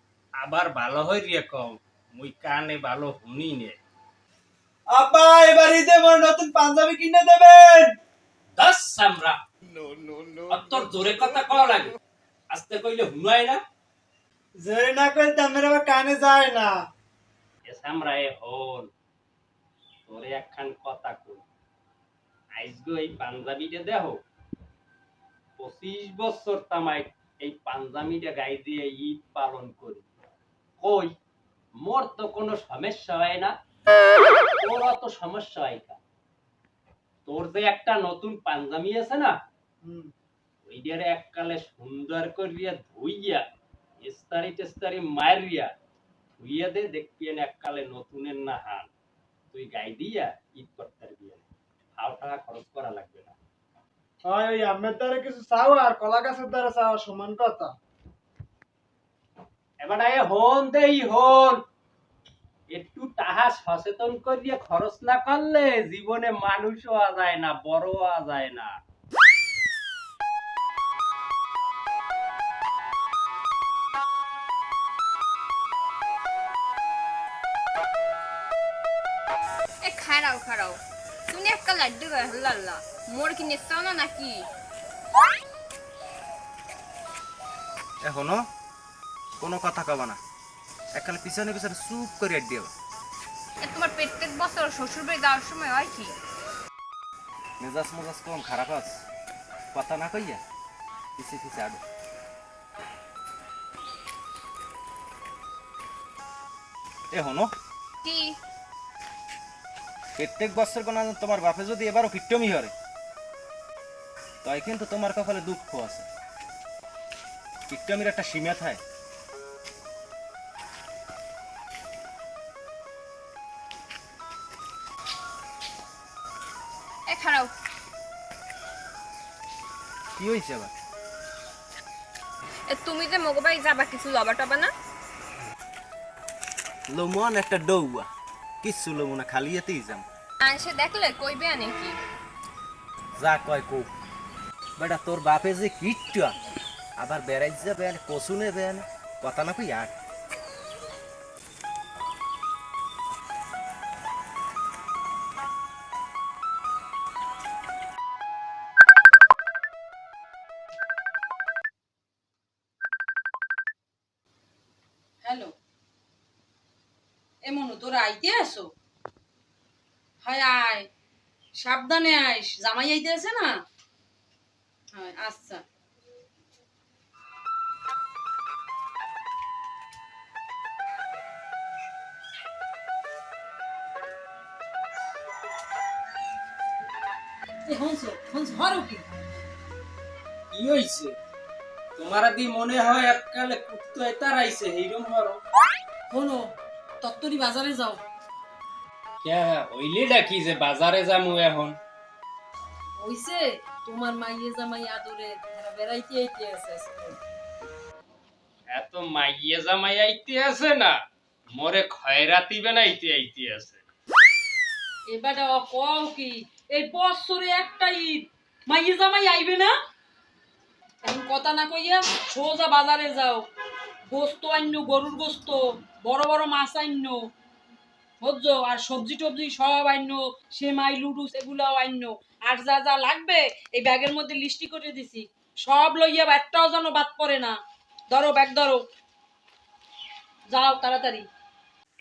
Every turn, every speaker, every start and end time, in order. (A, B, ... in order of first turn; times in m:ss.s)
0:00.4-0:03.8 A
0:04.9-0:08.0 B
0:08.6-0:09.4 A
0:10.5-0:12.0 A
0:12.5-0:13.6 A
0:14.6-0:16.8 B
0:17.6-0:18.9 A
0:20.1-0:21.4 A
0:22.5-0:24.2 A
0:25.6-0:30.1 A
0:30.8-0:31.1 A
0:31.8-0:33.5 A
0:34.6-0:36.0 A
0:37.2-0:39.4 A
0:39.8-0:40.1 B
0:40.7-0:43.4 A
0:44.0-0:45.7 A
0:46.4-0:48.9 A
0:49.5-0:51.4 A
0:52.0-0:53.4 A
0:54.2-0:57.7 B
0:59.8-1:01.6 A
1:02.7-1:08.7 A
1:19.8-1:24.5 C
1:28.0-1:28.4 D
1:29.4-1:30.2 D
1:30.9-1:32.7 D
1:33.6-1:36.2 C
1:37.6-1:39.0 D
1:39.7-1:40.4 D
1:41.2-1:41.8 D
1:47.1-1:47.5 D
1:48.0-1:48.4 C
1:50.2-1:52.7 D
1:54.4-1:56.1 D
1:57.7-1:58.8 D
2:07.1-2:07.5 C
2:10.2-2:10.7 D
2:12.7-2:14.7 C
2:16.9-2:18.1 D
2:18.6-2:20.0 D
2:20.4-2:22.0 C
2:23.2-2:23.9 D
2:24.8-2:26.4 D
2:27.0-2:29.9 D
2:45.2-2:45.5 E
2:47.4-2:48.6 E
2:50.2-2:50.9 E
2:51.6-2:53.5 E
2:54.9-2:55.6 E
3:07.6-3:09.2 E
3:10.5-3:11.1 A
3:12.0-3:15.4 A
3:16.1-3:16.4 E
3:17.0-3:18.0 E
3:19.2-3:21.8 A
3:23.0-3:27.2 E
3:28.7-3:30.9 A
3:31.6-3:33.8 A
3:35.1-3:39.7 E
3:41.0-3:43.4 E
3:44.1-3:47.1 E
3:48.2-3:57.6 E
3:58.1-3:58.8 E
4:00.5-4:01.3 E